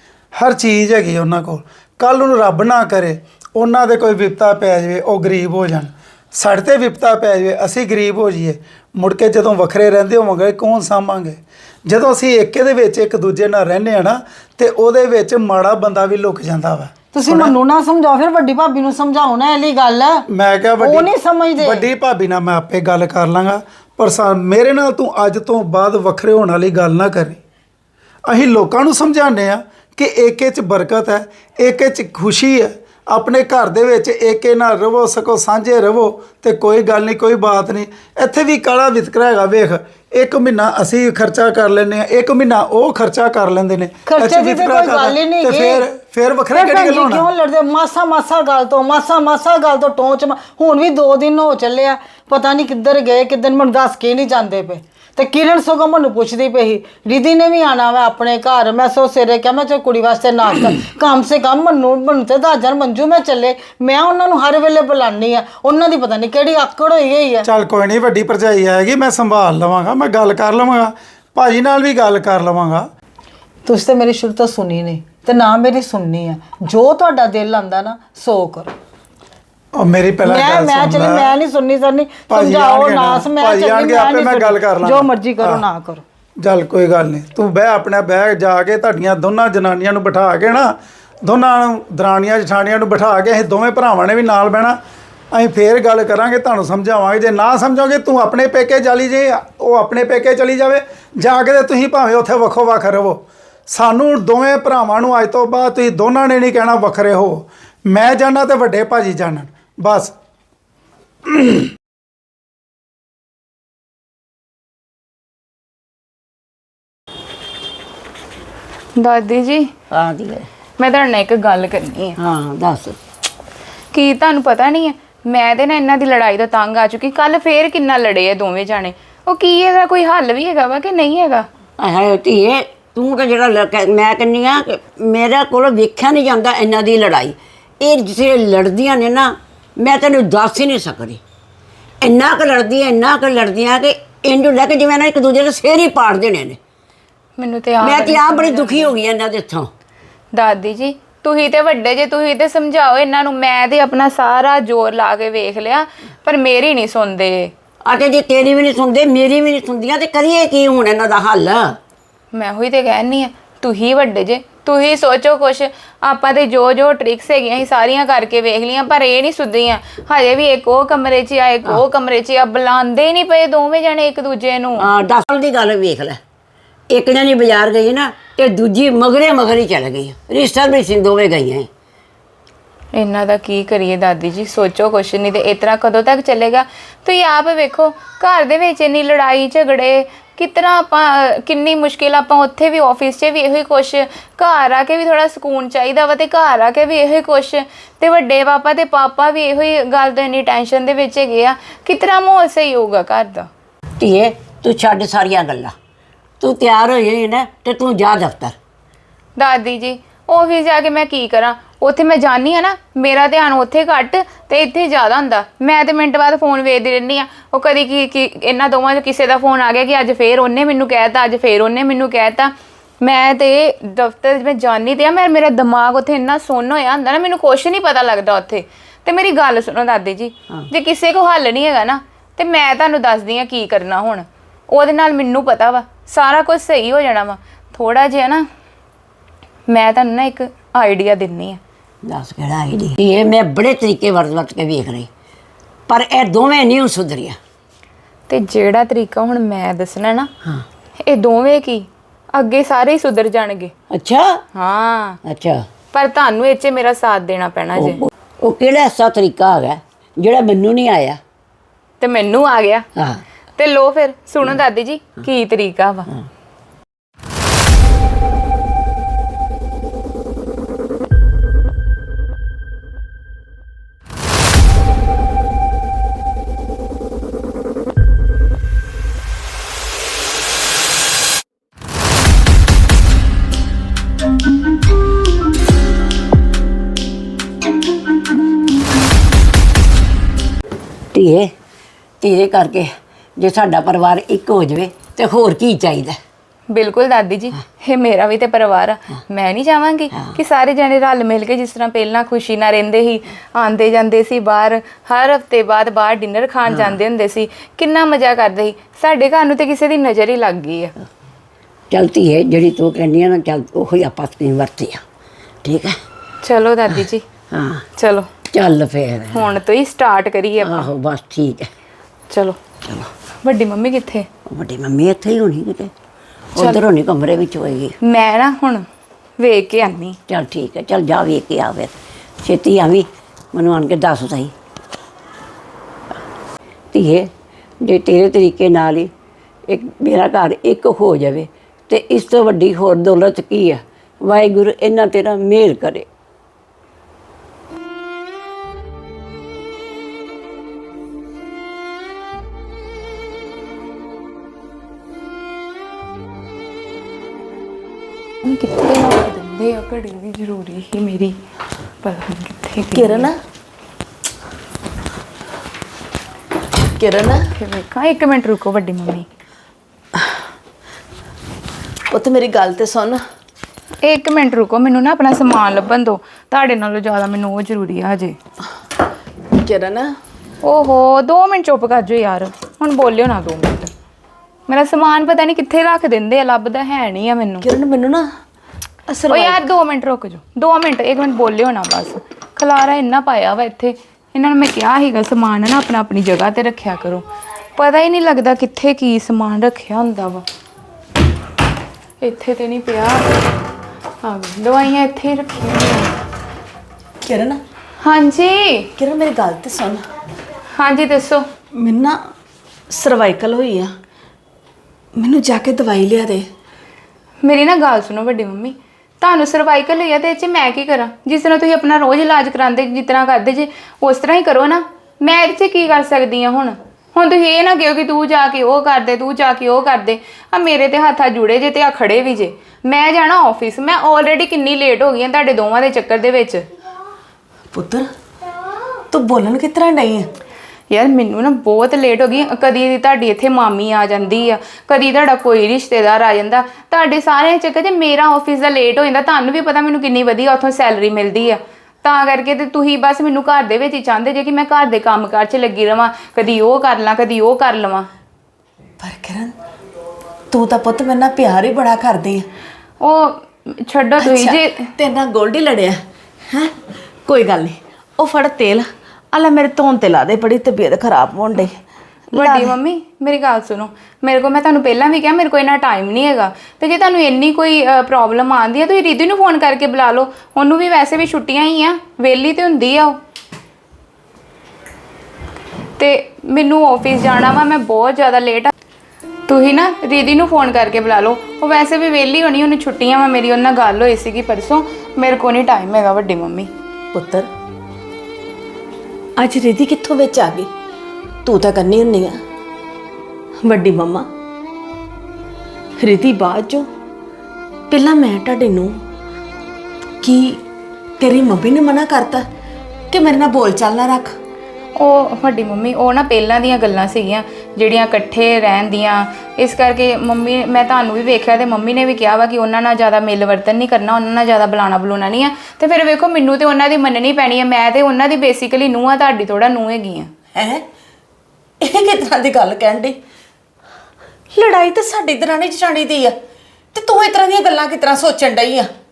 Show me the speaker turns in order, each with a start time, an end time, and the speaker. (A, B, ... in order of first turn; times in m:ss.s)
0:00.3-0:17.6 A
0:17.1-0:20.2 B
0:20.3-0:27.4 A
0:20.8-0:21.9 B
0:28.2-0:47.3 A
0:44.0-0:45.9 B
0:46.5-1:07.5 B
1:07.4-1:12.9 A
1:13.6-1:18.7 B
1:19.7-1:21.3 A
1:20.2-1:26.0 B
1:22.3-1:25.6 A
1:26.4-1:34.8 A
1:35.3-1:50.1 A
1:51.3-1:51.6 A
1:59.0-1:59.7 C
1:59.9-2:00.5 D
2:00.8-2:02.2 C
2:02.2-2:03.0 D
2:03.9-2:11.5 C
2:11.8-2:21.2 D
2:22.0-2:26.6 D
2:27.4-2:28.9 C
2:27.8-2:29.7 D
2:30.3-2:37.5 C
2:37.8-2:41.8 D
2:42.3-2:54.8 C
2:54.8-2:56.2 D
2:56.9-3:01.7 D
3:02.9-3:23.5 C
3:24.0-3:25.7 D
3:26.4-3:28.6 D
3:29.4-3:58.4 C
3:59.7-4:01.6 C
4:02.0-4:05.1 D
4:05.9-4:07.4 D
4:08.3-4:10.3 C
4:11.0-4:13.7 C
4:13.9-4:14.4 D
4:14.5-4:15.2 C
4:15.2-4:15.6 D
4:15.9-4:18.0 C
4:17.8-4:21.2 D
4:22.0-4:22.9 C
4:23.0-4:23.2 D
4:23.6-4:26.1 C
4:51.1-4:51.5 D
4:52.2-4:56.2 D
4:56.7-5:10.9 C
5:06.7-5:06.9 D
5:11.9-5:15.0 D
5:15.6-5:16.0 D
5:16.4-5:17.2 C
5:17.5-5:17.8 D
5:18.0-5:18.3 C
5:18.5-5:19.5 D
5:19.3-5:20.9 C
5:20.6-5:21.7 D
5:22.3-5:22.6 C
5:23.4-5:24.3 C
5:24.5-5:25.9 D
5:26.5-5:27.9 D
5:26.6-5:26.8 C
5:28.0-5:28.8 C
5:29.4-5:30.2 C
5:30.3-5:34.5 D
5:36.9-5:37.3 D
5:37.8-5:39.1 D
5:39.7-5:46.0 D
5:58.4-6:01.4 C
6:02.0-6:03.3 C
6:02.9-6:03.4 E
6:07.0-6:07.4 E
6:07.6-6:09.3 C
6:12.1-6:13.2 E
6:14.0-6:18.4 C
6:19.6-6:20.1 E
6:20.6-6:23.9 C
6:24.7-6:27.7 C
6:27.6-6:28.3 E
6:29.1-6:29.6 E
6:29.3-6:40.4 C
6:42.2-6:43.2 C
6:44.2-6:46.1 C
6:47.2-6:47.6 E
6:48.0-6:48.9 C
6:49.0-6:50.0 E
6:50.7-6:51.4 C
6:51.8-6:52.2 E
6:52.9-6:53.9 E
6:55.2-6:56.4 E
6:57.4-7:16.6 C
7:17.7-7:18.1 E
7:19.1-7:20.3 E
7:20.9-7:38.1 C
7:39.0-7:39.5 E
7:40.5-7:42.5 E
7:43.0-7:44.8 C
7:44.2-7:46.0 E
7:47.2-7:51.7 E
7:52.3-8:03.2 C
7:52.3-7:52.7 E
8:06.0-8:08.7 C
8:09.5-8:16.7 C
8:17.1-8:17.5 E
8:19.4-8:20.7 E
8:21.4-8:22.4 E
8:23.6-8:24.3 E
8:26.0-8:26.9 E
8:27.9-8:29.0 E
8:30.2-8:30.6 E
8:31.2-8:32.4 E
8:33.1-8:34.3 E
8:35.0-8:50.3 C
8:50.5-8:50.8 E
8:51.8-8:53.2 E
8:54.5-8:56.3 E
8:56.9-8:58.9 E